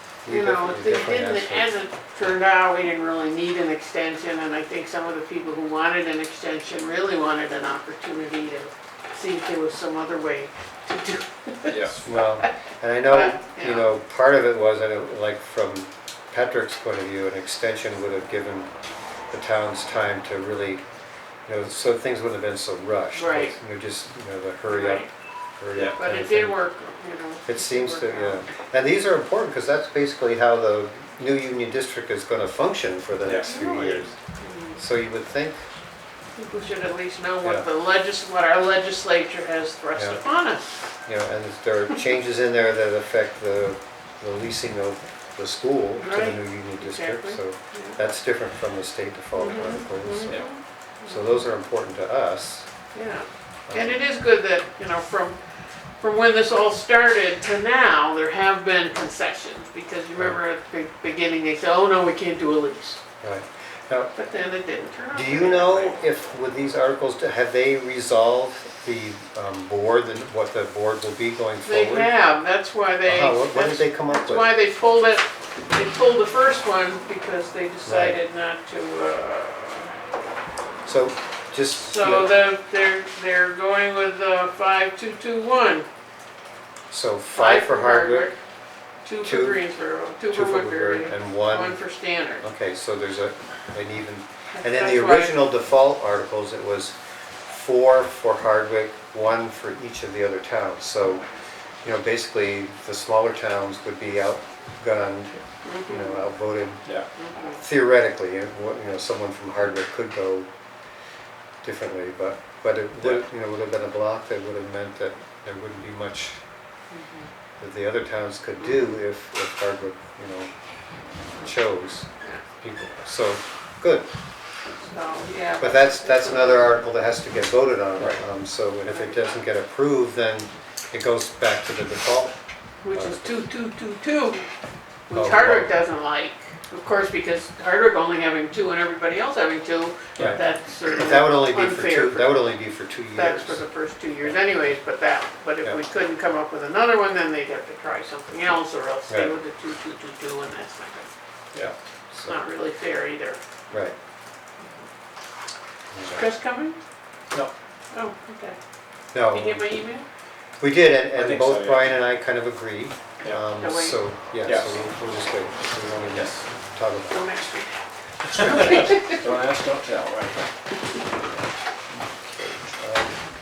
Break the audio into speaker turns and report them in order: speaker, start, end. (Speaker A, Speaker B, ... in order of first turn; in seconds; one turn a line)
Speaker A: 0.3-1.7
Speaker B: 0.3-12.5
Speaker C: 11.7-12.0
Speaker A: 12.1-18.7
Speaker B: 13.1-13.9
Speaker A: 19.3-20.8
Speaker A: 21.5-25.1
Speaker B: 23.1-23.5
Speaker B: 24.7-25.1
Speaker A: 25.6-26.6
Speaker B: 26.0-28.5
Speaker A: 27.5-34.2
Speaker C: 33.2-33.5
Speaker B: 33.4-34.8
Speaker A: 34.8-35.6
Speaker B: 36.4-40.7
Speaker A: 39.9-40.2
Speaker A: 41.1-50.5
Speaker B: 46.0-48.0
Speaker B: 49.4-51.4
Speaker A: 51.1-52.7
Speaker B: 52.9-55.4
Speaker A: 53.7-54.0
Speaker B: 56.0-63.0
Speaker A: 63.2-64.1
Speaker B: 64.2-66.0
Speaker A: 65.1-72.1
Speaker B: 71.7-80.0
Speaker A: 73.0-74.5
Speaker A: 77.8-78.2
Speaker A: 80.9-82.4
Speaker B: 81.8-85.9
Speaker A: 86.9-88.3
Speaker B: 87.3-88.3
Speaker B: 89.0-92.5
Speaker A: 89.2-89.6
Speaker A: 90.3-91.8
Speaker A: 92.4-101.2
Speaker B: 94.5-95.5
Speaker A: 101.8-106.9
Speaker B: 105.7-106.2
Speaker B: 107.2-107.6
Speaker A: 107.5-110.5
Speaker A: 111.6-116.4
Speaker B: 116.9-117.3
Speaker A: 117.6-120.5
Speaker A: 121.4-122.1
Speaker A: 122.6-124.1
Speaker B: 124.9-126.8
Speaker A: 125.6-132.3
Speaker C: 128.0-128.2
Speaker B: 128.9-129.1
Speaker B: 132.8-134.5
Speaker A: 132.9-133.4
Speaker B: 135.1-142.5
Speaker A: 135.1-135.7
Speaker A: 140.2-143.6
Speaker B: 143.2-151.1
Speaker A: 144.2-144.8
Speaker A: 149.1-149.3
Speaker A: 151.6-152.4
Speaker B: 152.2-153.4
Speaker A: 155.9-156.3
Speaker B: 156.1-156.8
Speaker B: 157.9-158.6
Speaker A: 159.1-159.8
Speaker B: 159.2-160.1
Speaker A: 160.6-167.3
Speaker C: 161.2-162.0
Speaker B: 163.6-164.0
Speaker C: 164.4-164.8
Speaker C: 166.1-166.4
Speaker B: 167.1-169.3
Speaker C: 168.3-170.4
Speaker A: 168.4-168.9
Speaker A: 171.9-173.2